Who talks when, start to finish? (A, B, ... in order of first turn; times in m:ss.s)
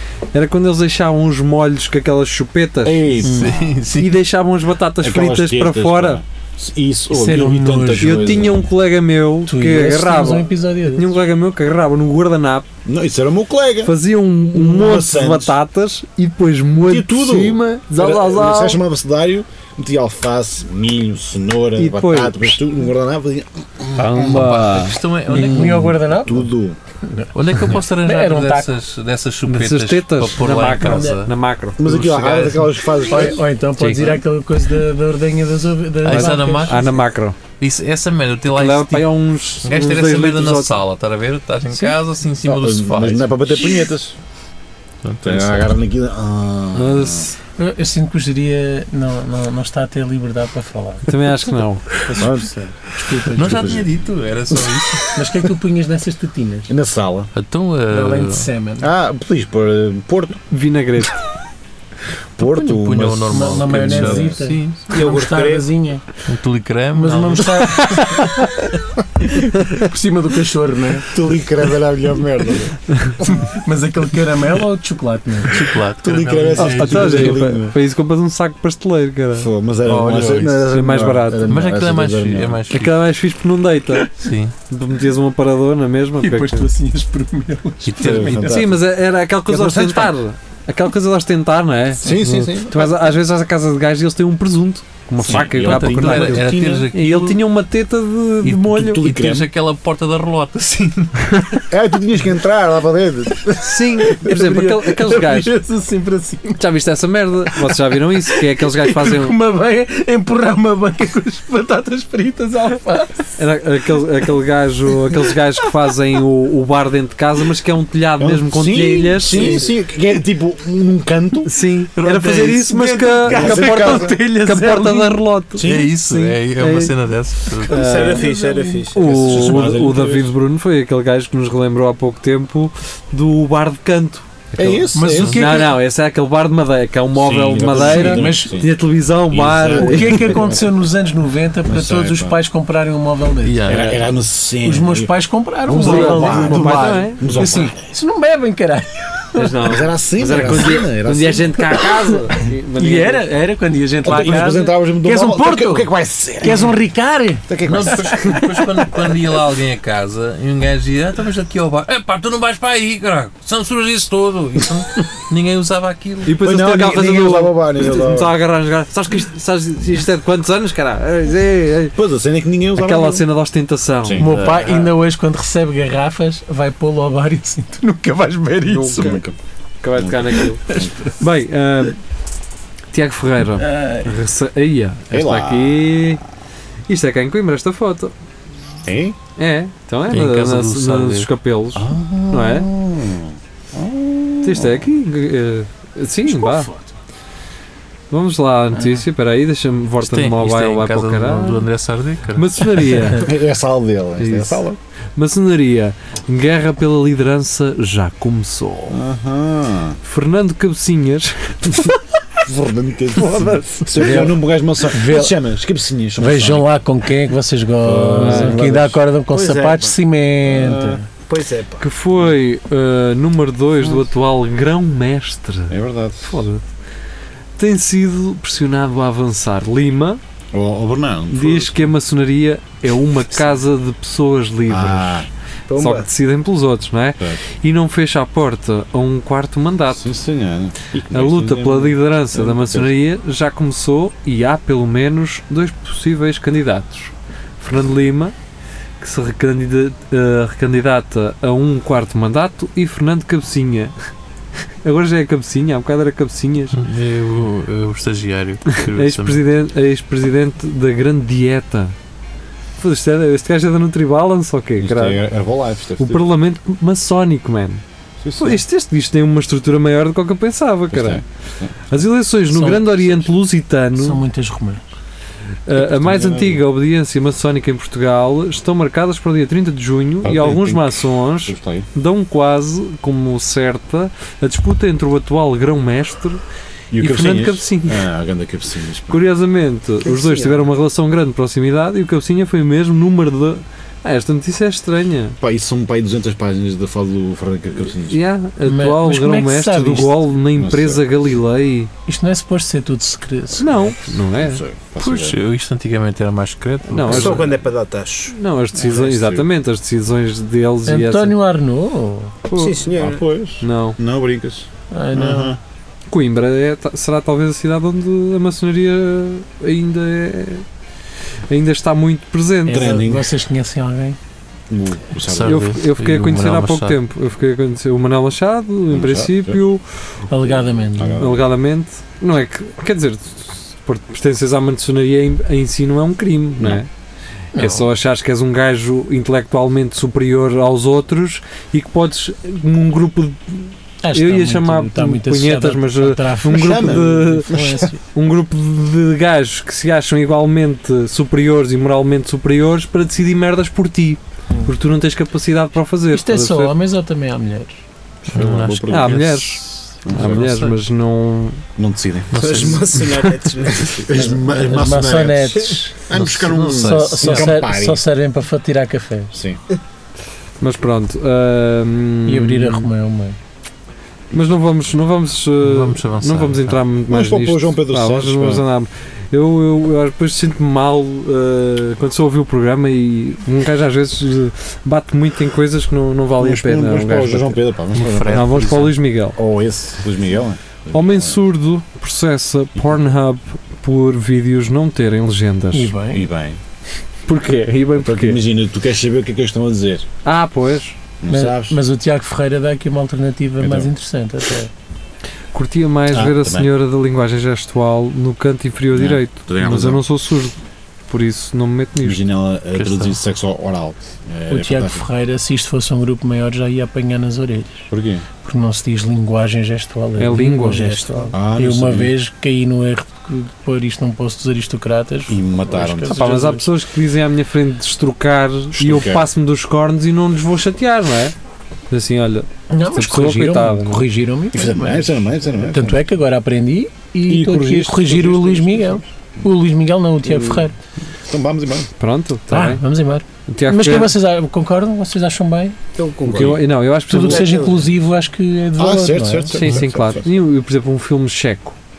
0:00.3-0:03.1 A
0:02.8-0:03.8 B
0:03.2-0:04.1 C
0:03.9-0:06.2 A
0:05.0-0:08.7 B
0:07.1-0:08.4 D
0:08.0-0:12.7 A
0:09.5-0:11.1 D
0:12.8-0:14.0 B
0:13.8-0:18.8 A
0:14.5-0:15.6 B
0:16.8-0:24.5 B
0:21.8-0:22.6 A
0:24.0-0:25.0 A
0:24.1-0:26.0 C
0:25.3-0:26.5 D
0:26.1-0:26.8 B
0:27.1-0:28.8 D
0:27.3-0:32.7 C
0:29.5-0:31.9 A
0:30.8-0:31.2 D
0:31.8-0:33.4 B
0:33.1-0:36.9 D
0:33.8-0:34.2 A
0:36.0-0:39.1 C
0:36.1-0:37.4 A
0:38.5-0:40.8 A
0:39.6-0:43.8 C
0:42.4-0:44.2 B
0:45.0-0:45.7 C
0:45.2-0:47.3 B
0:46.8-0:47.4 A
0:47.6-0:51.1 D
0:51.1-0:52.1 A
0:52.1-0:53.8 D
0:52.1-0:52.5 B
0:53.3-0:53.9 B
0:53.3-0:55.1 C
0:55.1-0:56.7 D
0:56.7-0:57.3 B
0:57.3-0:58.5 C
0:57.9-0:58.9 D
0:58.8-1:00.4 B
1:00.5-1:01.2 A
1:02.4-1:04.4 B
1:02.4-1:05.2 C
1:03.3-1:06.0 D
1:04.9-1:05.7 E
1:06.2-1:07.6 C
1:06.9-1:08.6 D
1:07.8-1:08.5 A
1:09.2-1:11.1 D
1:11.1-1:12.8 B
1:13.2-1:15.6 D
1:15.5-1:17.4 C
1:16.0-1:17.8 B
1:16.6-1:19.5 A
1:19.4-1:22.6 B
1:19.8-1:20.6 C
1:20.7-1:21.6 A
1:21.5-1:23.0 C
1:22.7-1:24.1 A
1:24.1-1:24.5 C
1:24.7-1:26.7 A
1:26.2-1:28.5 D
1:27.8-1:28.6 C
1:28.0-1:28.9 B
1:28.4-1:39.1 A
1:29.5-1:30.1 B
1:32.0-1:33.2 B
1:35.2-1:36.9 B
1:35.5-1:37.4 C
1:38.4-1:41.3 C
1:38.7-1:39.5 B
1:41.7-1:43.6 B
1:43.6-1:45.6 A
1:44.0-1:46.6 D
1:46.6-1:49.4 A
1:47.7-1:53.3 D
1:53.4-1:59.6 A
1:58.2-2:01.5 B
1:59.4-1:59.7 D
2:01.4-2:07.0 A
2:02.0-2:05.2 D
2:03.3-2:04.2 B
2:05.6-2:05.9 B
2:05.6-2:07.8 C
2:07.7-2:08.3 A
2:07.7-2:09.5 E
2:07.7-2:10.0 D
2:08.9-2:20.5 A
2:09.1-2:10.4 B
2:14.6-2:15.5 B
2:15.0-2:15.7 D
2:15.1-2:15.4 C
2:17.1-2:18.8 B
2:17.7-2:18.5 D
2:19.3-2:20.7 B
2:19.7-2:24.0 D
2:21.6-2:22.4 B
2:23.4-2:24.0 C
2:23.6-2:25.1 B
2:24.6-2:29.6 D
2:25.6-2:27.8 B
2:25.8-2:27.7 A
2:29.4-2:33.3 A
2:29.6-2:31.8 B
2:32.7-2:38.6 D
2:34.0-2:36.8 B
2:37.5-2:38.1 B
2:37.7-2:46.4 C
2:46.2-2:52.0 A
2:46.4-2:48.4 B
2:52.0-2:53.2 B
2:52.8-2:54.4 A
2:54.0-2:54.4 B
2:54.2-2:59.2 D
2:54.2-2:54.9 C
2:58.7-2:59.2 A
2:59.0-2:59.4 B
2:59.8-3:02.0 A
3:00.0-3:01.1 B
3:00.6-3:01.2 D
3:02.9-3:06.2 A
3:03.6-3:04.2 D
3:05.1-3:06.2 B
3:06.9-3:08.1 A
3:08.8-3:09.2 B
3:09.4-3:12.7 A
3:10.1-3:11.3 C
3:11.8-3:15.0 B
3:14.4-3:16.7 A
3:16.3-3:16.9 D
3:18.1-3:21.7 A
3:20.0-3:23.0 C
3:22.3-3:23.3 A
3:23.2-3:24.8 B
3:24.2-3:29.0 A
3:28.9-3:30.0 B
3:30.0-3:32.0 A
3:32.5-3:36.7 B
3:33.2-3:34.4 A
3:34.0-3:34.3 D
3:34.8-3:35.3 D
3:36.2-3:41.1 D
3:37.8-3:39.0 B
3:38.2-3:38.6 A
3:39.3-3:40.0 E
3:40.4-3:41.0 B
3:41.2-3:41.9 E
3:41.8-3:46.6 A
3:45.7-3:46.4 B
3:47.6-3:50.2 A
3:50.5-3:51.9 B
3:51.3-4:00.0 A
3:54.7-3:55.3 B
3:55.7-3:56.1 E
3:59.9-4:02.9 B
4:01.1-4:08.3 A
4:09.0-4:13.9 A
4:14.8-4:16.8 A
4:16.7-4:19.4 C
4:18.9-4:22.0 A
4:22.8-4:25.2 A
4:24.8-4:26.3 B
4:26.0-4:27.8 A
4:28.2-4:28.6 B
4:28.4-4:31.2 A
4:30.9-4:32.0 B
4:31.9-4:34.2 A
4:32.5-4:33.2 D
4:34.0-4:34.8 D
4:35.7-4:46.4 A
4:35.8-4:36.6 B
4:40.2-4:41.9 B
4:46.9-4:49.2 B
4:47.0-4:48.0 A
4:49.1-4:55.4 A
4:50.2-4:50.4 E
4:55.4-4:58.2 B
4:58.0-5:01.9 A
4:58.6-5:00.2 D
5:00.5-5:01.0 B
5:02.0-5:03.9 D
5:03.6-5:04.6 A
5:03.6-5:05.4 B
5:05.0-5:07.5 C
5:06.9-5:07.6 A
5:07.0-5:08.4 E
5:08.3-5:11.4 A
5:08.8-5:09.5 B
5:10.9-5:12.4 D
5:12.5-5:12.9 A
5:12.5-5:13.2 E
5:13.0-5:15.6 B
5:13.6-5:14.0 A
5:14.9-5:15.5 D
5:16.1-5:20.6 A
5:21.5-5:23.0 A
5:22.7-5:24.2 D
5:22.7-5:23.3 B
5:24.7-5:25.7 B
5:25.2-5:27.0 C
5:25.4-5:29.8 A
5:28.9-5:29.6 B
5:30.3-5:31.2 D
5:31.0-5:31.5 B
5:31.2-5:36.9 A
5:37.5-5:37.9 D
5:37.6-5:56.8 A
5:44.0-5:48.0 D
5:46.5-5:47.9 B
5:56.1-5:57.8 D
5:58.2-6:00.8 C
5:58.3-5:59.3 B
5:58.9-6:01.6 A
6:00.0-6:00.4 B
6:01.8-6:02.8 B
6:02.3-6:03.3 C
6:02.4-6:04.3 E
6:03.8-6:08.0 B
6:04.1-6:06.0 D
6:06.1-6:07.5 C
6:06.8-6:09.3 D
6:09.3-6:09.6 B
6:10.6-6:12.9 A
6:12.2-6:13.4 D
6:14.3-6:27.6 A
6:15.6-6:16.8 C
6:17.1-6:18.6 B
6:26.4-6:31.4 B
6:27.9-6:28.9 C
6:28.3-6:29.4 A
6:30.9-6:35.9 A
6:35.7-6:36.2 D
6:36.1-6:36.6 B
6:37.3-6:38.4 A
6:38.0-6:40.1 B
6:40.2-6:41.0 A
6:41.2-6:41.8 B
6:41.3-6:44.7 D
6:43.6-6:43.9 B
6:45.5-6:50.6 A
6:46.1-6:46.7 B
6:48.9-6:50.0 B
6:51.1-6:52.2 A
6:52.0-6:55.1 B
6:52.7-6:53.2 C
6:54.5-6:57.9 D
6:57.9-6:58.2 B
6:58.4-7:06.7 D
7:00.2-7:01.3 A
7:01.3-7:02.2 B
7:05.3-7:06.5 B
7:06.1-7:11.3 A
7:08.7-7:09.3 B
7:11.9-7:14.1 A
7:12.7-7:20.8 D
7:14.5-7:16.0 B
7:17.3-7:19.1 B
7:20.2-7:20.7 B
7:21.2-7:21.9 B
7:22.0-7:22.8 A
7:22.5-7:25.8 D
7:23.5-7:24.2 A
7:26.0-7:27.9 E
7:26.2-7:27.7 A
7:26.3-7:26.6 B
7:27.1-7:29.7 D
7:28.8-7:30.3 B
7:29.5-7:31.8 A